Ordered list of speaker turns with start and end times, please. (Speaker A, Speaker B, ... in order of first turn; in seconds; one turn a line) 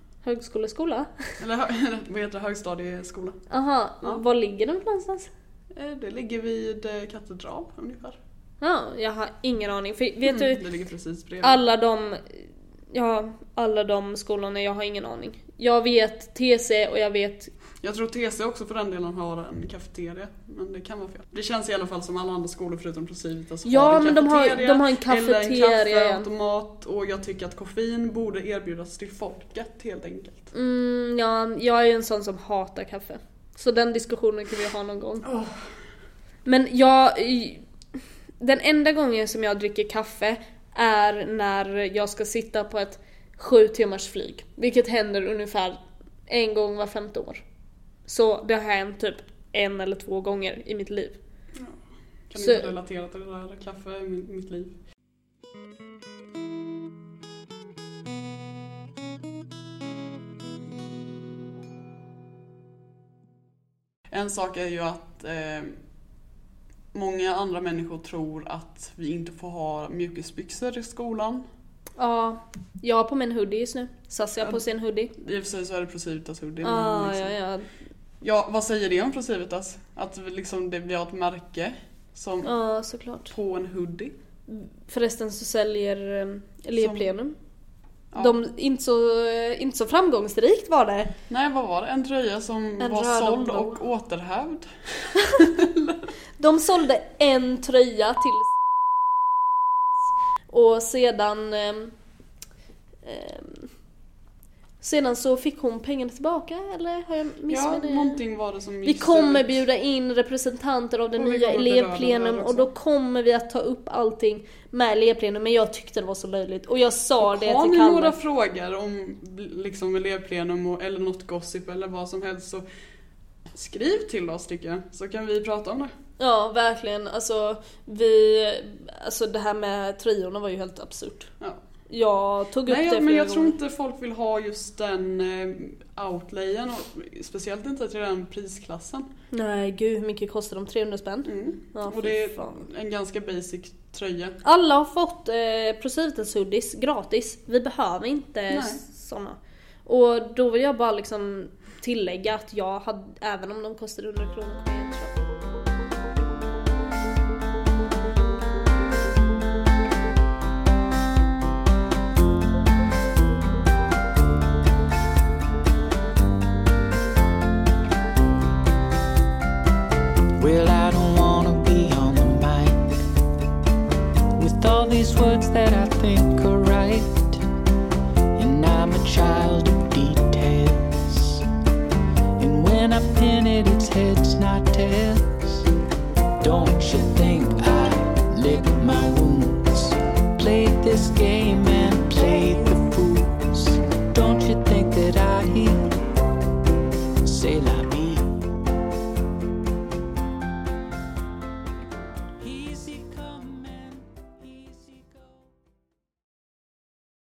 Speaker A: 0.2-1.4
Speaker B: 1.4-3.4
Speaker A: 3.5-5.3
Speaker B: 5.7-8.2
Speaker A: 8.6-10.6
Speaker B: 10.3-11.6
Speaker A: 11.4-17.5
Speaker B: 17.8-30.5
Speaker A: 23.6-26.3
Speaker A: 30.5-35.3
Speaker B: 35.2-35.7
Speaker A: 36.5-37.6
Speaker A: 38.4-47.4
Speaker A: 48.1-51.2
Speaker B: 51.5-54.8
Speaker A: 52.4-52.7
Speaker B: 64.1-65.8
Speaker B: 66.9-71.4
Speaker A: 72.0-75.1
Speaker B: 74.4-74.7
Speaker B: 75.2-77.4
Speaker A: 76.6-77.7
Speaker B: 78.2-82.5
Speaker A: 82.4-83.3
Speaker B: 83.3-84.2
Speaker A: 84.5-87.3
Speaker B: 86.8-87.1
Speaker A: 88.2-91.1
Speaker B: 91.3-96.1
Speaker A: 92.8-93.8
Speaker A: 96.4-98.6
Speaker A: 100.5-102.0
Speaker A: 103.0-103.7
Speaker A: 104.8-108.2
Speaker B: 107.5-109.6
Speaker A: 108.8-118.2
Speaker B: 111.2-112.7
Speaker B: 117.2-122.7
Speaker B: 123.5-125.9
Speaker A: 126.2-131.3
Speaker A: 131.9-133.6
Speaker B: 132.7-139.1
Speaker A: 139.3-142.7
Speaker B: 141.2-144.4
Speaker A: 144.4-155.2
Speaker B: 148.5-148.8
Speaker C: 170.3-173.0
Speaker C: 174.3-177.4
Speaker C: 178.3-181.4
Speaker C: 182.4-185.7
Speaker C: 186.4-196.1
Speaker C: 197.2-198.5
Speaker C: 202.4-205.5